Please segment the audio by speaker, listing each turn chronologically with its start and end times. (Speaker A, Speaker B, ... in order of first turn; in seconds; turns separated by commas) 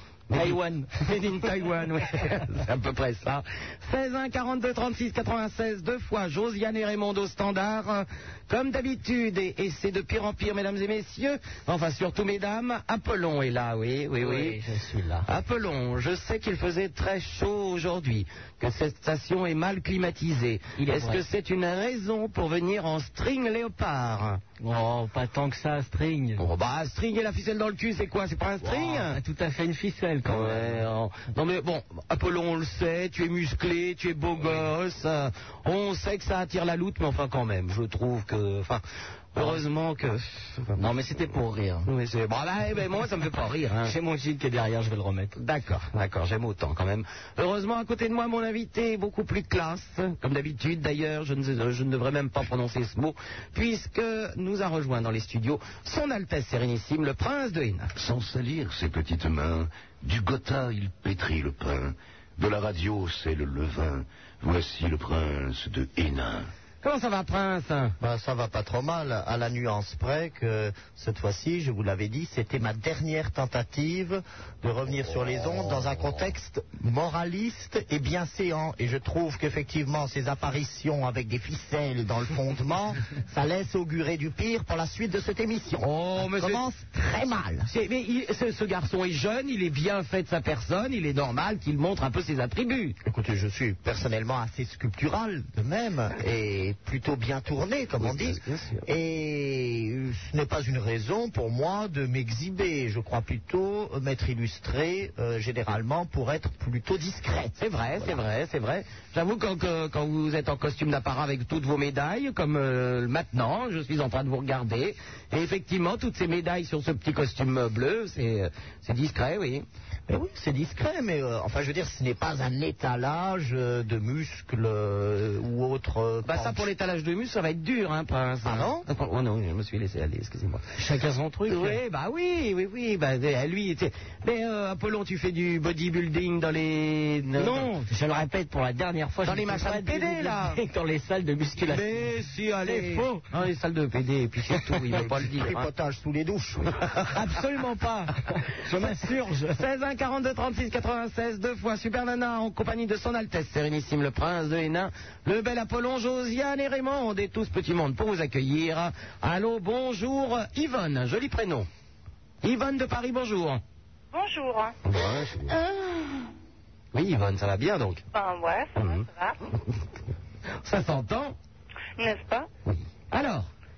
Speaker A: 0.3-14.6, Speaker B: 0.4-0.8, Speaker B: 14.2-15.2, Speaker A: 15.2-24.4, Speaker B: 20.8-21.2, Speaker B: 24.6-26.4, Speaker A: 26.4-29.2, Speaker B: 28.6-30.9, Speaker A: 30.2-38.8, Speaker B: 39.3-39.6, Speaker A: 39.3-40.8, Speaker B: 40.7-41.9, Speaker A: 41.9-43.9, Speaker B: 43.8-45.4, Speaker A: 45.4-57.9, Speaker C: 57.9-66.5, Speaker A: 66.8-67.9, Speaker D: 68.0-87.7, Speaker C: 75.6-75.9, Speaker A: 85.8-86.6, Speaker A: 87.7-93.0, Speaker D: 93.0-108.2, Speaker A: 98.0-98.8, Speaker A: 107.6-119.7, Speaker D: 120.1-126.7, Speaker A: 126.2-137.8, Speaker D: 128.4-128.8, Speaker B: 130.8-131.8, Speaker B: 137.3-143.2, Speaker A: 139.2-140.6, Speaker A: 141.6-145.7, Speaker D: 144.9-146.8, Speaker A: 147.1-148.1, Speaker B: 148.7-149.6, Speaker A: 148.7-161.7, Speaker A: 162.4-163.6, Speaker E: 164.1-164.8, Speaker A: 164.8-165.6, Speaker E: 165.5-166.1, Speaker A: 166.9-168.0, Speaker E: 168.1-169.4, Speaker A: 168.8-169.0, Speaker A: 170.6-171.3, Speaker E: 172.0-172.5, Speaker A: 173.1-173.5